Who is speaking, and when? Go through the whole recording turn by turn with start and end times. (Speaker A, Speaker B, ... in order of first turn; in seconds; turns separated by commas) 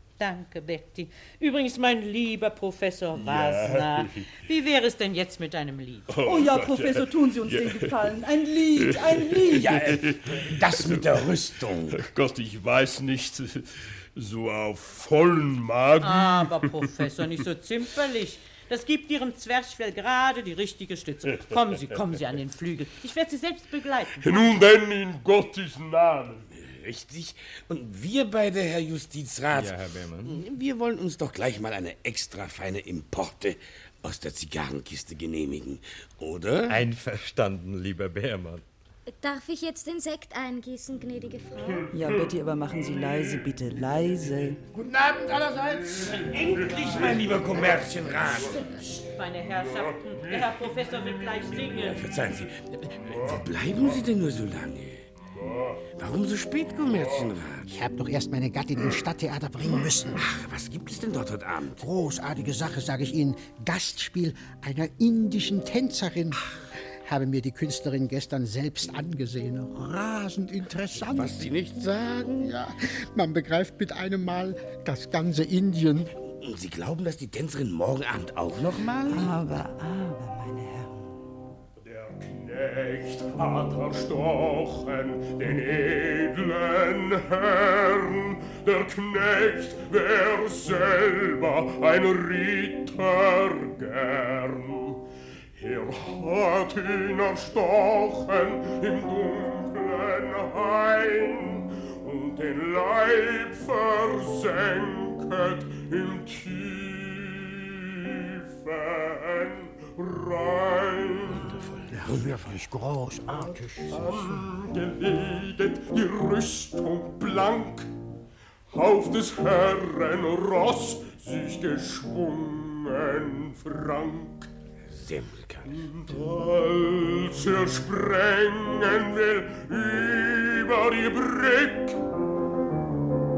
Speaker A: 0.2-6.1, Speaker B: 3.2-4.3, Speaker B: 6.1-8.0, Speaker C: 6.2-9.8, Speaker B: 8.8-11.2, Speaker D: 9.5-12.0, Speaker B: 11.9-16.9, Speaker A: 16.0-24.6, Speaker B: 24.2-26.5, Speaker D: 26.6-36.8, Speaker E: 29.5-30.4, Speaker E: 36.7-38.6, Speaker F: 39.1-41.9, Speaker C: 41.9-44.6, Speaker G: 44.7-46.2, Speaker D: 46.2-48.6, Speaker B: 46.8-47.4, Speaker A: 48.7-52.0, Speaker B: 50.3-50.6, Speaker D: 51.8-55.0, Speaker B: 55.4-55.8, Speaker D: 56.0-57.7, Speaker G: 57.7-60.2, Speaker D: 60.2-61.9, Speaker G: 61.8-66.4, Speaker G: 67.0-71.6, Speaker D: 70.9-72.5, Speaker G: 72.4-76.1, Speaker D: 76.2-79.3, Speaker C: 79.1-81.0, Speaker B: 81.8-95.0, Speaker B: 95.6-111.5, Speaker G: 111.4-114.6, Speaker D: 111.5-112.5, Speaker B: 113.9-117.9, Speaker B: 118.7-124.5, Speaker D: 124.8-125.8, Speaker B: 125.7-132.0